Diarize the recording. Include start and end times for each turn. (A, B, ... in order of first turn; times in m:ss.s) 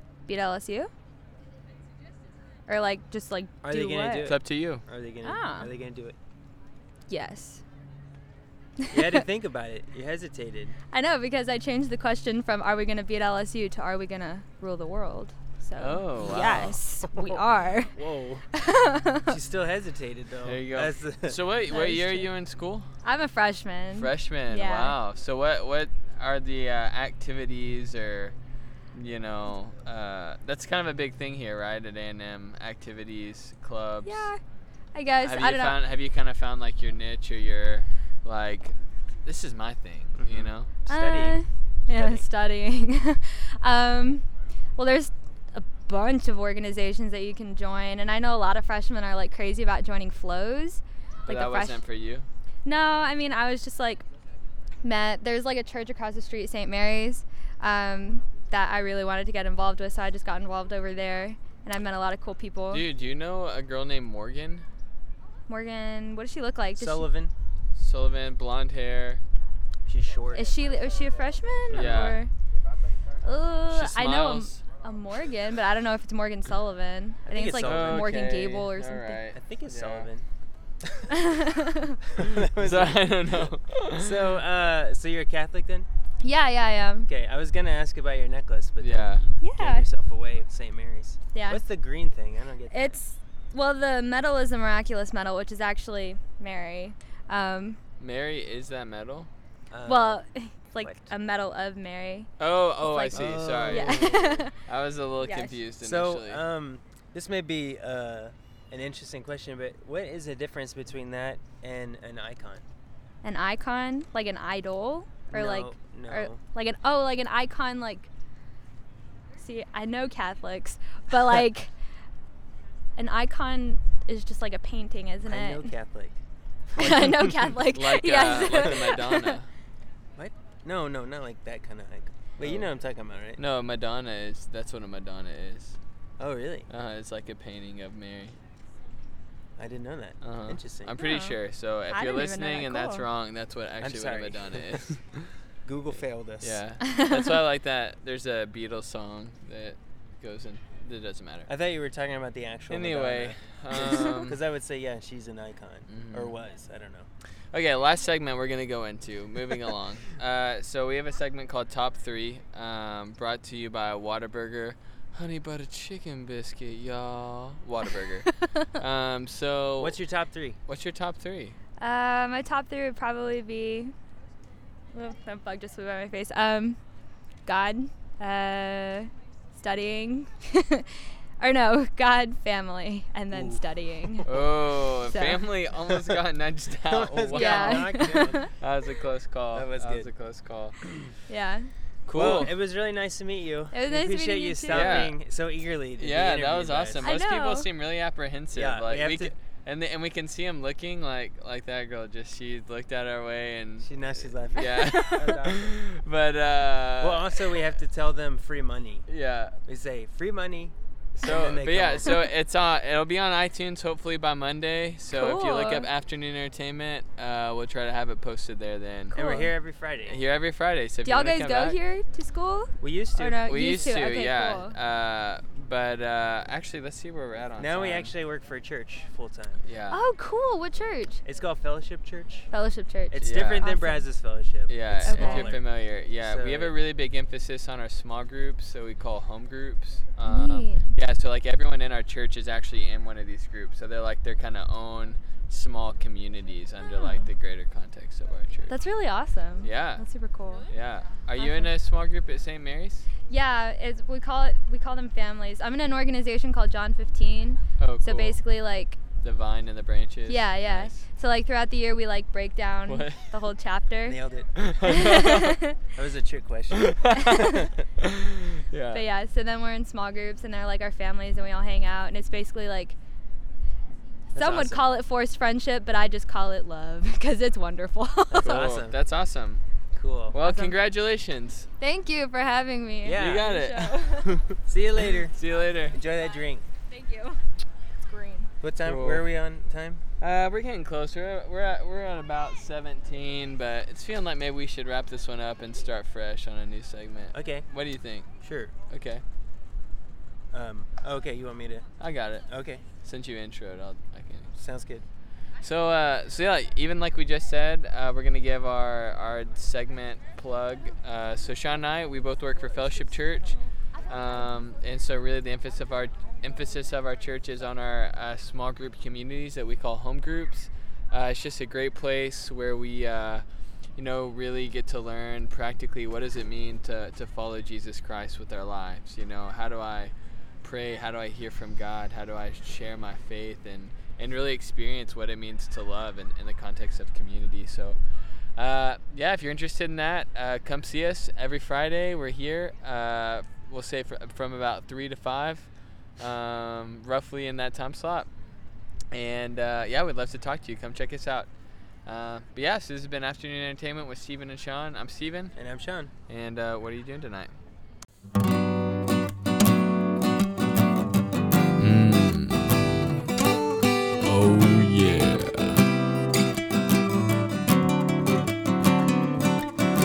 0:00.2-0:00.9 A
0:02.7-0:04.3 A
0:03.6-0:06.2 B
0:04.2-0:04.8 C
0:05.2-0:05.7 A
0:07.1-0:07.6 A
0:08.9-0:10.8 B
0:10.9-0:18.0 A
0:15.8-0:16.8 C
0:17.9-0:18.4 B
0:18.5-0:19.3 A
0:19.2-0:21.4 B
0:20.4-0:22.9 C
0:21.7-0:22.3 A
0:23.0-0:25.0 A
0:23.9-0:28.3 C
0:28.9-0:34.3 C
0:34.0-0:34.4 A
0:34.9-0:35.8 A
0:35.2-0:40.7 C
0:40.2-0:42.2 B
0:40.9-0:44.2 A
0:44.8-0:51.8 A
0:51.2-0:52.3 C
0:52.6-0:54.0 A
0:54.8-1:02.8 A
1:02.7-1:04.6 C
1:05.5-1:07.1 A
1:06.8-1:07.3 B
1:07.8-1:09.2 C
1:09.9-1:10.4 B
1:10.3-1:12.3 A
1:11.7-1:12.1 B
1:11.7-1:12.2 C
1:13.2-1:19.2 A
1:13.7-1:14.6 C
1:17.3-1:18.2 B
1:17.6-1:20.1 C
1:19.3-1:20.2 B
1:21.2-1:21.9 A
1:22.2-1:25.9 B
1:22.5-1:24.3 C
1:26.2-1:27.1 A
1:27.0-1:33.0 B
1:28.8-1:29.2 C
1:29.4-1:29.9 A
1:31.3-1:31.6 A
1:32.7-1:37.8 A
1:38.0-1:39.3 C
1:39.7-1:40.2 B
1:39.8-1:44.6 A
1:40.8-1:41.1 B
1:42.4-1:46.4 C
1:43.1-1:44.4 B
1:45.2-1:45.6 A
1:45.8-1:52.6 B
1:53.2-1:58.1 A
1:55.3-1:56.4 B
1:59.4-2:01.7 A
2:03.0-2:05.7 A
2:05.2-2:06.2 B
2:06.8-2:07.6 B
2:06.8-2:09.4 A
2:07.7-2:09.5 C
2:10.2-2:13.4 B
2:12.4-2:12.7 C
2:13.4-2:15.8 C
2:16.2-2:16.7 B
2:16.7-2:18.4 C
2:19.6-2:20.9 B
2:20.2-2:25.3 C
2:21.0-2:21.4 A
2:21.9-2:23.0 A
2:23.8-2:24.8 B
2:25.6-2:26.6 B
2:25.9-2:31.5 C
2:26.9-2:27.2 A
2:31.5-2:37.1 B
2:32.7-2:34.4 C
2:35.9-2:36.3 C
2:37.5-2:50.0 C
2:49.8-2:50.6 B
2:50.7-2:51.6 C
2:51.8-2:53.9 A
2:54.9-2:56.8 A
2:57.4-3:04.3 A
3:03.3-3:03.6 B
3:04.2-3:10.7 C
3:05.0-3:05.4 A
3:06.8-3:08.5 B
3:07.3-3:08.5 A
3:09.5-3:10.1 B
3:11.3-3:11.7 A
3:12.1-3:12.5 C
3:12.1-3:17.1 B
3:13.7-3:15.1 A
3:14.7-3:15.2 C
3:16.0-3:27.6 C
3:17.0-3:17.7 A
3:18.5-3:19.3 B
3:23.8-3:25.8 B
3:24.6-3:25.3 A
3:27.0-3:29.0 B
3:29.1-3:29.5 C
3:29.6-3:32.2 B
3:31.2-3:39.1 C
3:35.1-3:35.9 A
3:39.1-3:39.5 A
3:39.1-3:40.1 B
3:40.0-3:41.8 C
3:41.0-3:44.7 A
3:42.8-3:43.8 B
3:43.4-3:48.1 C
3:47.6-3:49.6 B
3:49.6-3:50.0 C
3:49.9-3:51.2 A
3:51.2-3:52.5 B
3:52.5-3:54.0 A
3:53.1-3:56.7 B
3:53.2-3:53.6 C
3:54.7-4:08.7 C
3:55.0-3:55.5 A
4:00.2-4:00.8 A
4:06.8-4:07.2 A
4:08.7-4:10.7 A
4:09.6-4:10.0 C
4:10.7-4:13.0 C
4:11.4-4:11.7 A
4:13.3-4:19.0 A
4:17.8-4:18.4 C
4:19.2-4:21.0 C
4:20.3-4:24.2 A
4:22.8-4:23.3 C
4:24.0-4:24.6 B
4:24.6-4:25.6 C
4:24.8-4:25.7 A
4:25.9-4:27.8 B
4:26.8-4:27.2 C
4:27.1-4:27.6 A
4:28.0-4:29.0 C
4:28.9-4:33.0 A
4:34.3-4:34.9 B
4:34.3-4:38.7 A
4:38.3-4:38.9 B
4:38.4-4:39.6 C
4:39.9-4:40.4 B
4:40.3-4:41.7 C
4:40.4-4:40.8 A
4:41.8-4:44.4 A
4:43.0-4:43.5 B
4:43.1-4:43.9 C
4:44.6-4:45.3 B
4:45.3-4:46.0 C
4:45.9-4:46.6 B
4:46.9-4:47.4 A
4:48.0-4:48.5 A
4:48.6-4:50.0 B
4:48.8-4:49.3 C
4:50.2-4:58.3 C
4:57.3-4:57.6 B
4:58.4-4:58.7 B
4:58.9-4:59.2 C
5:00.5-5:01.8 B
5:02.0-5:02.5 C
5:02.5-5:02.8 B
5:03.0-5:04.5 C
5:04.5-5:05.0 B
5:05.6-5:23.4 C
5:24.0-5:38.0 C
5:38.6-5:45.7 C
5:46.2-5:48.3 C
5:49.1-5:51.5 C
5:52.0-5:55.5 C
5:55.5-5:56.1 B
5:56.3-5:57.5 C
6:01.8-6:02.8 C
6:04.2-6:05.8 C